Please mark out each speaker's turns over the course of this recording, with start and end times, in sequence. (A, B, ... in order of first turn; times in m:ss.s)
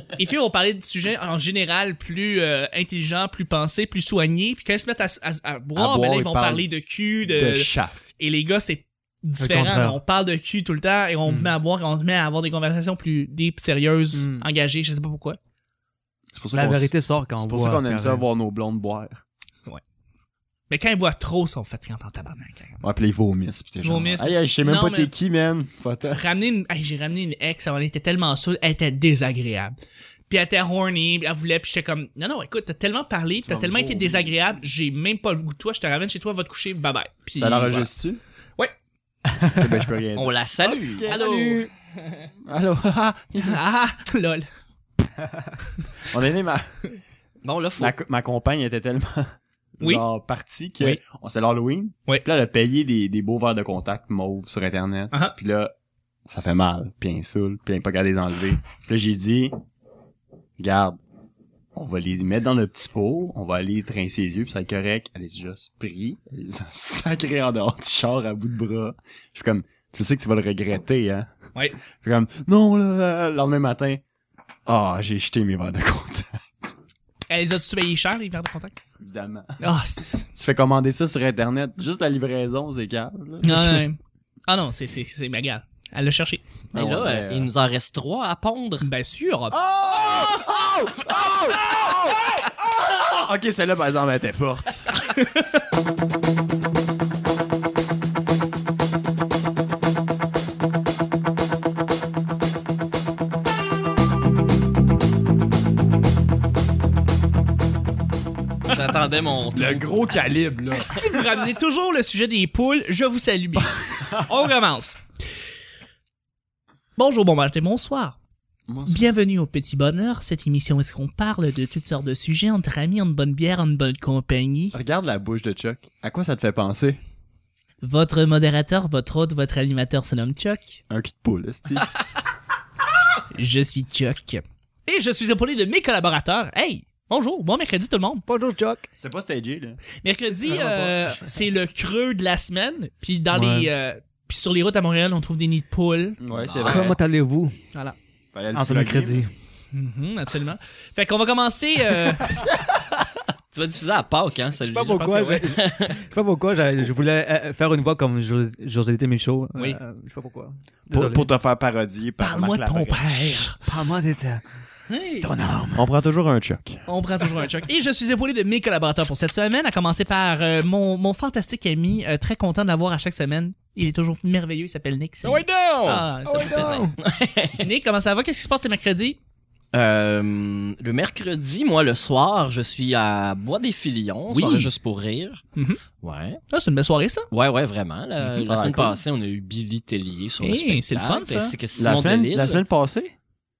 0:00.2-0:15.4 A
0:05.7-0:06.7 B
0:07.2-0:08.1 B
0:09.4-0:10.0 C
0:11.3-0:11.5 C
0:14.1-0:14.4 C
0:16.3-0:19.2 B
0:16.5-0:18.2 C
0:20.7-0:22.8 A
0:22.8-0:26.2 B
0:23.8-0:25.1 A
0:26.1-0:29.8 A
0:30.3-0:37.9 A
0:33.4-0:34.5 B
0:37.3-0:38.2 B
0:39.4-0:39.7 C
0:39.5-0:41.6 B
0:40.2-0:41.0 D
0:41.0-0:41.7 C
0:41.1-0:41.7 A
0:42.4-0:43.6 B
0:43.4-0:44.4 A
0:45.2-0:45.5 C
0:46.1-0:46.8 B
0:47.4-0:47.9 D
0:47.8-0:55.7 B
0:56.3-0:59.5 B
1:00.6-1:01.0 B
1:01.7-1:11.3 B
1:12.0-1:14.0 B
1:14.6-1:16.7 B
1:17.3-1:18.8 A
1:19.0-1:19.7 B
1:19.6-1:20.2 A
1:20.3-1:23.8 B
1:23.4-1:26.4 A
1:26.7-1:27.5 B
1:26.7-1:28.9 D
1:28.8-1:29.6 A
1:29.5-1:34.9 B
1:35.0-1:35.5 A
1:48.7-1:50.3 D
1:49.5-1:51.2 B
1:50.7-1:55.0 A
1:53.9-1:54.2 B
1:57.0-1:58.2 A
1:58.7-1:59.1 B
1:58.9-2:04.7 A
2:04.7-2:07.0 B
2:07.8-2:10.8 A
2:10.9-2:11.9 B
2:13.3-2:18.2 A
2:18.3-2:18.8 C
2:19.0-2:19.8 B
2:20.0-2:26.2 A
2:20.5-2:20.9 C
2:23.3-2:23.7 C
2:26.2-2:27.0 B
2:26.3-2:27.0 D
2:26.6-2:27.5 C
2:28.3-2:29.2 B
2:28.5-2:29.3 C
2:29.7-2:32.4 A
2:33.5-2:36.0 D
2:34.6-2:41.3 C
2:40.9-2:43.5 B
2:42.2-2:43.6 A
2:43.6-2:44.4 C
2:44.9-2:45.3 A
2:45.2-2:45.9 C
2:45.7-2:46.8 B
2:46.9-2:56.9 A
2:55.2-2:57.7 D
2:56.2-2:56.9 C
2:57.6-2:59.2 A
2:59.7-3:05.4 D
3:04.3-3:04.7 A
3:06.0-3:06.4 D
3:06.5-3:07.3 A
3:07.3-3:12.6 D
3:08.2-3:09.0 B
3:10.4-3:11.5 A
3:11.8-3:13.1 B